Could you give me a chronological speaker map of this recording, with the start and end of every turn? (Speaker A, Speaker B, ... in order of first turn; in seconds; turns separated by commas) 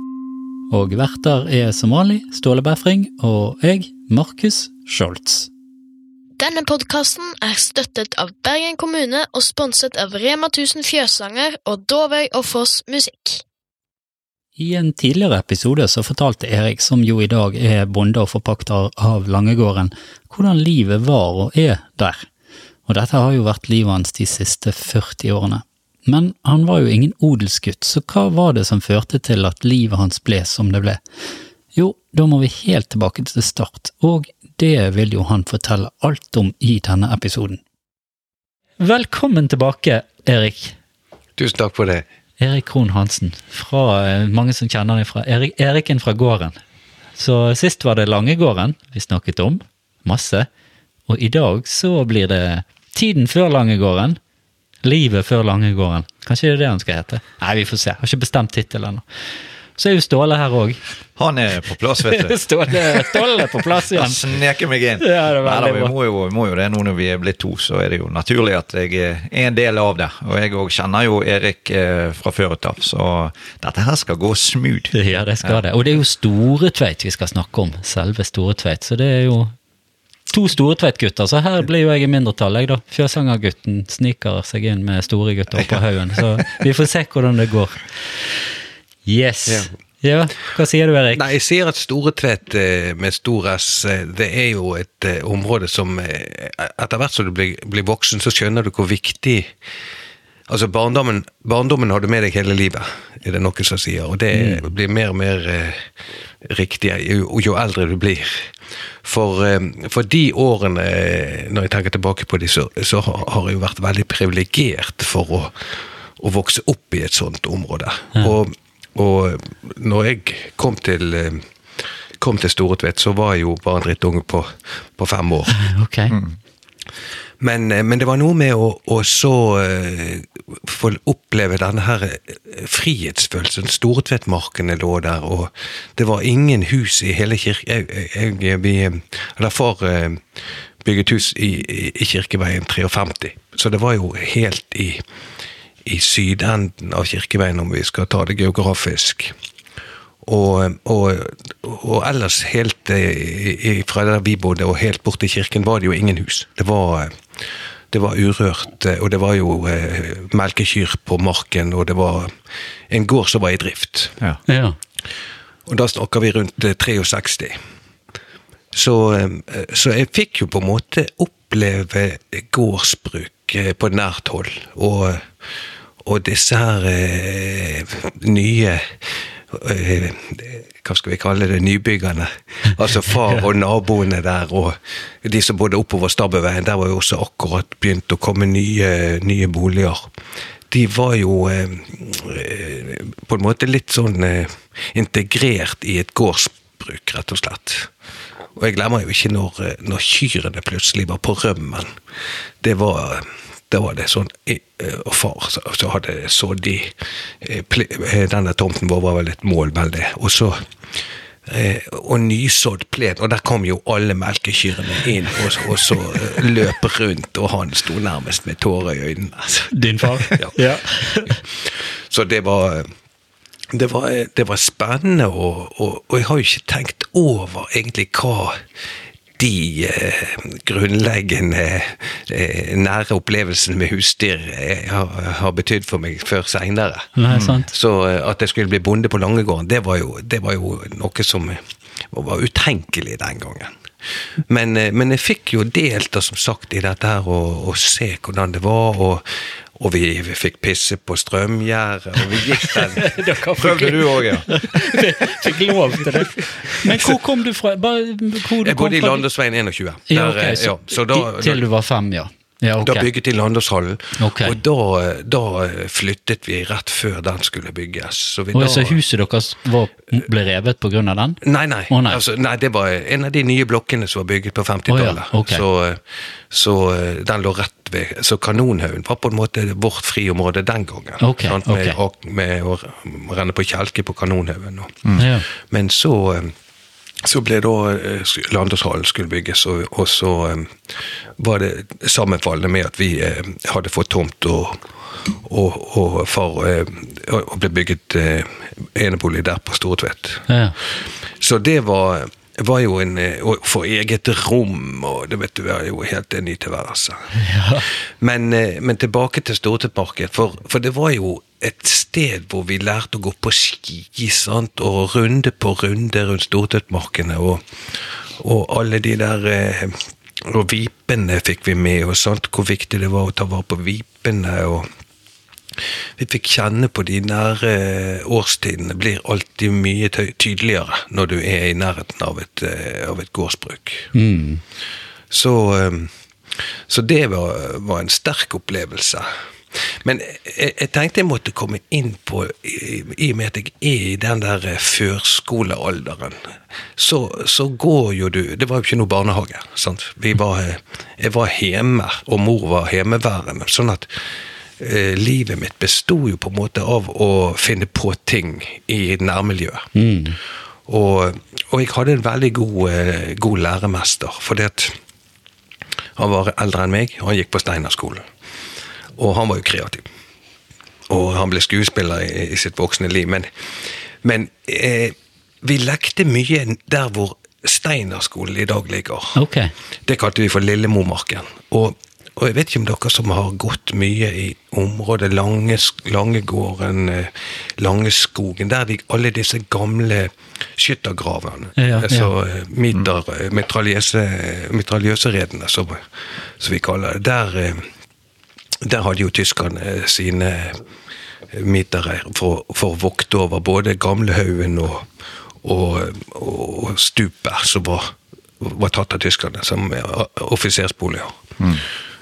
Speaker A: 0.7-5.5, Speaker B: 6.4-13.4, Speaker A: 14.6-22.3, Speaker A: 22.9-31.0, Speaker A: 31.7-37.6, Speaker A: 38.8-40.8, Speaker C: 41.4-42.0, Speaker A: 42.4-46.6, Speaker A: 47.1-50.5, Speaker A: 51.1-54.2, Speaker A: 54.8-59.0, Speaker A: 59.8-60.8, Speaker D: 61.2-63.2, Speaker A: 62.0-64.3, Speaker D: 63.9-75.6, Speaker A: 65.0-65.9, Speaker A: 74.9-79.5, Speaker A: 80.3-88.4, Speaker A: 89.0-91.3, Speaker C: 91.1-99.5, Speaker C: 100.5-105.8, Speaker A: 104.3-104.7, Speaker C: 106.4-125.6, Speaker A: 125.5-126.2, Speaker D: 126.1-126.3, Speaker C: 127.4-145.0, Speaker C: 145.8-149.3, Speaker C: 150.2-162.3, Speaker C: 162.9-164.2, Speaker A: 164.5-164.8, Speaker C: 165.7-167.6, Speaker C: 168.7-175.3, Speaker C: 176.0-190.1, Speaker C: 190.7-197.9, Speaker C: 198.6-201.9, Speaker C: 202.6-210.6, Speaker C: 211.5-220.6, Speaker A: 219.7-221.4, Speaker C: 221.2-222.9, Speaker C: 223.7-228.6, Speaker C: 229.4-237.1, Speaker A: 237.2-237.7, Speaker D: 237.3-237.6, Speaker C: 237.7-243.7, Speaker C: 244.5-253.1, Speaker A: 252.4-259.2, Speaker D: 253.6-254.5, Speaker C: 258.6-261.6, Speaker A: 260.1-263.1, Speaker C: 262.8-269.0, Speaker A: 264.2-264.6, Speaker A: 268.5-272.2, Speaker C: 271.4-286.5, Speaker A: 274.9-275.6, Speaker A: 281.2-282.0, Speaker A: 285.2-285.4, Speaker C: 287.2-300.5, Speaker A: 300.5-300.7, Speaker C: 301.4-307.3, Speaker A: 307.4-307.9, Speaker C: 307.9-324.9, Speaker C: 325.8-334.1, Speaker A: 334.1-334.6, Speaker C: 335.3-359.9, Speaker A: 359.9-360.4, Speaker C: 360.9-365.0, Speaker C: 366.2-368.2, Speaker C: 369.2-370.1, Speaker C: 371.1-379.4, Speaker A: 379.3-379.7, Speaker C: 380.1-396.1, Speaker A: 391.8-392.3, Speaker C: 396.6-397.8, Speaker C: 398.8-400.8, Speaker C: 401.5-405.1, Speaker C: 405.6-411.8